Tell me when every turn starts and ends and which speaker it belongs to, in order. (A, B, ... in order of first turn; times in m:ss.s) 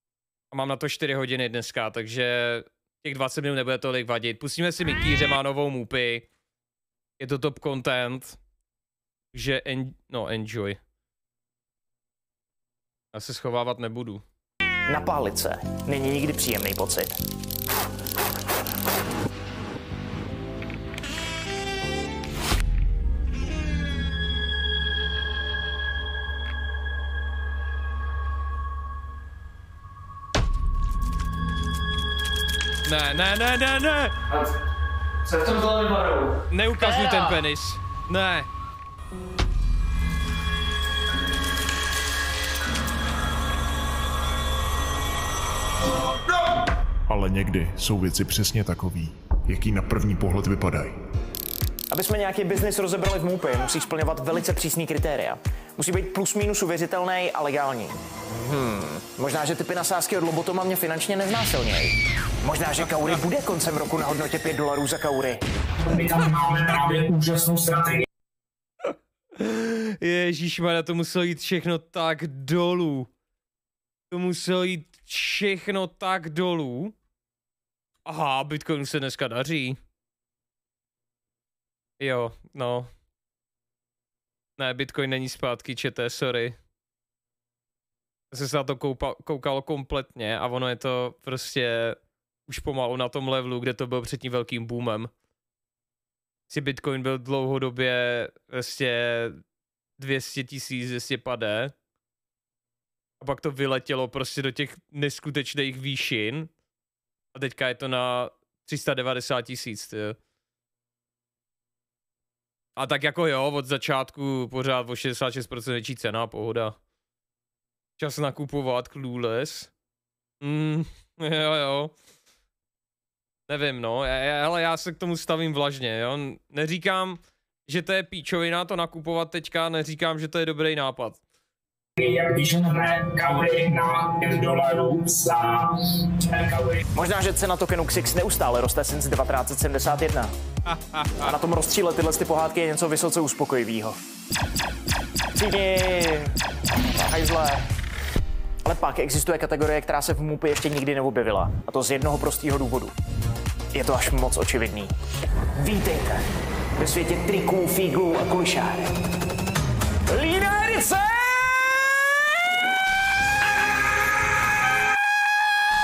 0:00.5-0:06.3 A
0:07.2-0:08.4 A
0:09.3-0:10.8 A
0:13.1-0:14.2 A
0:14.9-0:17.2 B
0:32.8-0:34.3 A
0:35.3-0:36.2 B
0:36.5-0:38.5 A
0:36.8-0:37.4 B
0:47.1-0:51.0 C
0:51.9-1:05.4 B
1:05.8-1:08.0 D
1:09.4-1:13.1 A
1:14.1-1:17.0 A
1:18.1-1:19.8 A
1:22.0-1:22.9 A
1:24.6-1:26.6 A
1:28.3-1:35.1 A
1:36.5-1:39.4 A
1:40.0-1:41.7 A
1:43.2-1:46.5 A
1:47.4-1:50.2 A
1:52.8-1:56.8 A
1:58.0-1:59.7 A
2:00.4-2:02.0 A
2:03.5-2:11.2 A
2:12.0-2:16.8 D
2:16.9-2:20.3 B
2:20.7-2:21.2 A
2:21.2-2:24.0 B
2:25.3-2:27.7 B
2:28.6-2:33.0 B
2:33.7-2:35.0 B
2:35.5-2:39.0 B
2:40.1-2:42.0 B